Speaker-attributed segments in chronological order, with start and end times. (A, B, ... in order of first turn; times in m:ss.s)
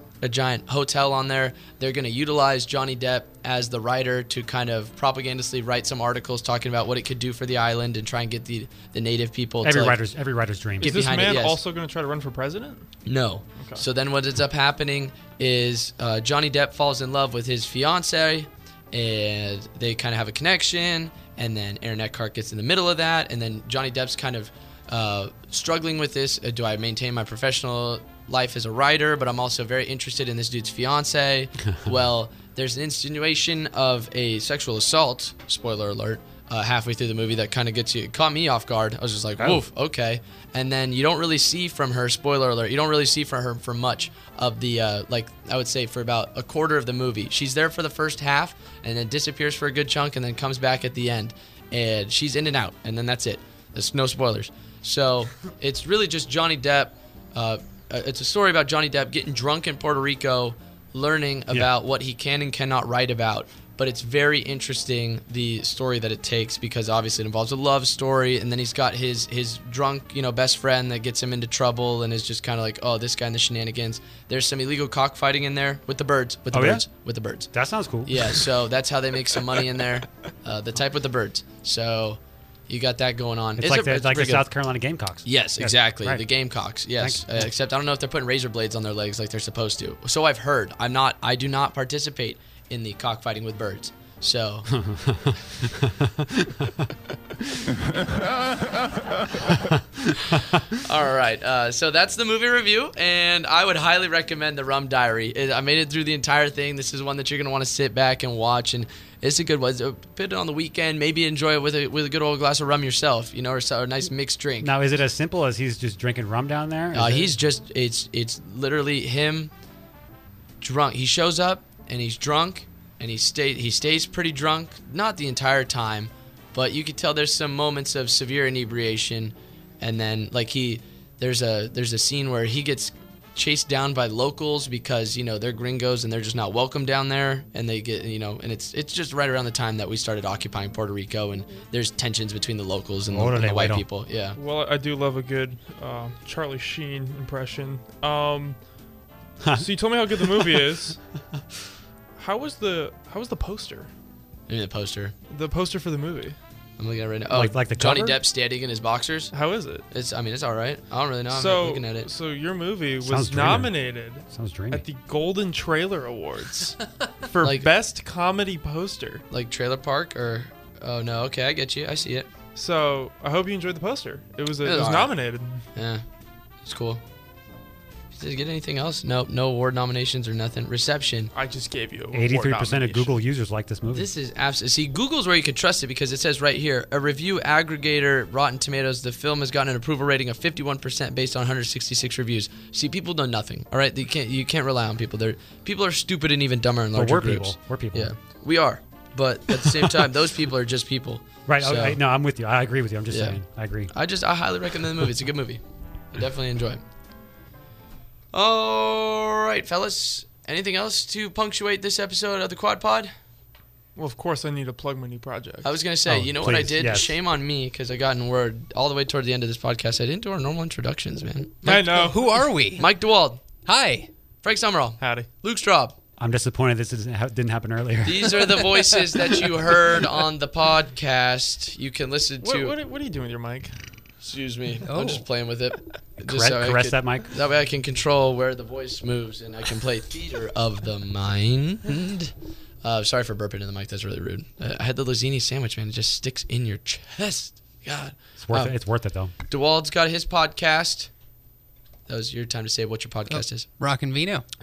0:00.2-0:10.0 A
0:09.6-0:11.0 B
0:10.8-0:12.9 C
0:10.8-0:11.6 A
0:13.1-1:17.5 A
1:16.5-1:16.9 B
1:17.5-1:18.4 B
1:18.1-1:24.5 A
1:23.6-1:26.2 B
1:25.2-1:34.7 A
1:27.0-1:27.4 B
1:34.7-1:36.9 B
1:39.7-1:40.1 B
1:40.3-1:54.7 A
1:54.6-1:57.4 B
1:56.9-1:59.5 A
2:00.6-2:24.4 A
2:23.1-2:23.8 B
2:24.4-2:28.6 C
2:29.4-2:30.6 B
2:29.6-2:31.0 C
2:32.2-2:33.9 C
2:34.5-2:35.1 A
2:35.3-2:36.4 C
2:36.8-2:39.3 A
2:37.3-2:38.2 B
2:39.3-2:39.9 C
2:39.9-2:42.1 A
2:41.3-2:49.2 C
2:43.0-2:44.8 B
2:47.4-2:47.7 A
2:49.3-2:52.3 A
2:52.6-2:55.6 C
2:54.6-2:55.2 A
2:55.7-2:56.0 A
2:56.6-2:57.0 A
2:58.2-3:01.3 A
3:01.3-3:03.1 C
3:02.1-3:04.1 B
3:03.9-3:22.0 A
3:16.9-3:18.1 B
3:19.6-3:19.9 B
3:21.5-3:23.9 B
3:23.1-3:23.4 A
3:23.9-3:25.6 A
3:26.1-3:26.8 A
3:28.3-3:33.1 A
3:34.0-3:35.7 C
3:35.6-3:41.6 A
3:36.1-3:37.1 B
3:41.6-3:42.2 C
3:41.6-3:42.9 D
3:42.8-3:43.4 A
3:43.6-3:44.1 D
3:44.4-3:46.0 A
3:45.0-3:45.3 C
3:46.2-3:48.7 B
3:48.0-3:52.8 A
3:52.4-3:53.7 C
3:54.2-4:02.3 A
3:54.9-3:55.2 D
3:56.3-3:57.3 B
4:02.8-4:08.8 A
4:08.4-4:09.3 B
4:09.5-4:11.1 A
4:12.1-4:13.7 A
4:13.3-4:14.4 D